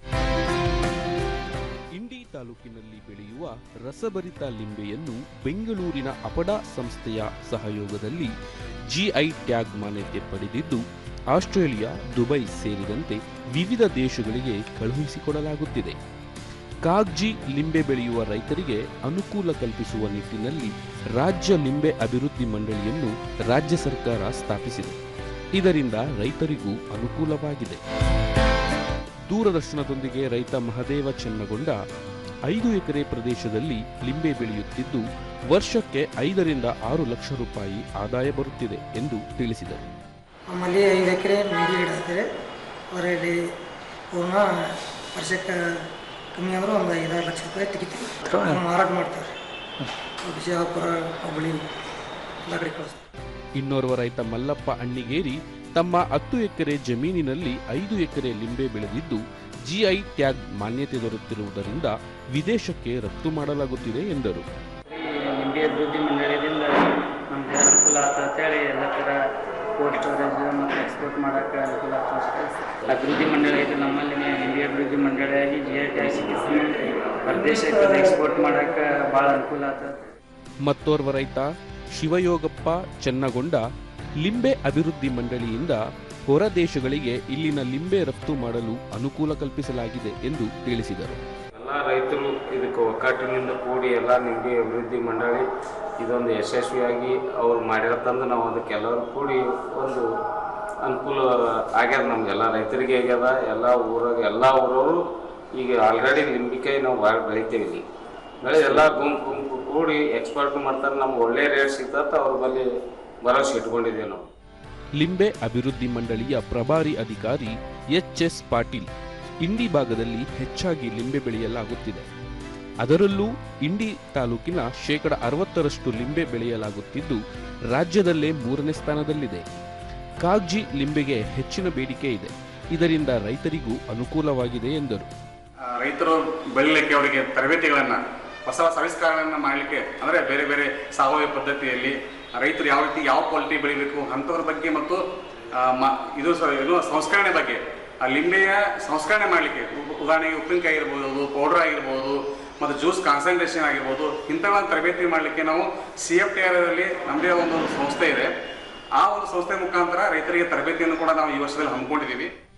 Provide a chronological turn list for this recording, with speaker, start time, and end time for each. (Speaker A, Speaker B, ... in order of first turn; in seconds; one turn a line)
Speaker A: 1.9-8.3
Speaker A: 8.9-16.0
Speaker A: 16.8-25.0
Speaker A: 25.5-27.8
Speaker A: 29.3-31.8
Speaker A: 32.5-39.8
Speaker B: 40.5-42.2
Speaker B: 42.9-43.4
Speaker B: 44.1-44.4
Speaker B: 45.1-45.5
Speaker B: 46.3-49.3
Speaker B: 50.2-51.7
Speaker B: 52.5-53.0
Speaker A: 53.5-64.5
Speaker C: 64.9-69.2
Speaker C: 69.8-80.1
Speaker A: 80.6-83.6
Speaker A: 84.2-91.2
Speaker D: 91.5-95.5
Speaker D: 96.0-100.0
Speaker D: 100.8-105.0
Speaker D: 105.5-107.8
Speaker D: 108.4-112.7
Speaker D: 113.2-114.3
Speaker A: 115.0-118.9
Speaker A: 119.4-122.1
Speaker A: 122.8-127.2
Speaker A: 127.7-129.4
Speaker A: 130.2-135.1
Speaker E: 135.8-145.0
Speaker E: 145.5-158.3
Speaker E: 159.0-162.3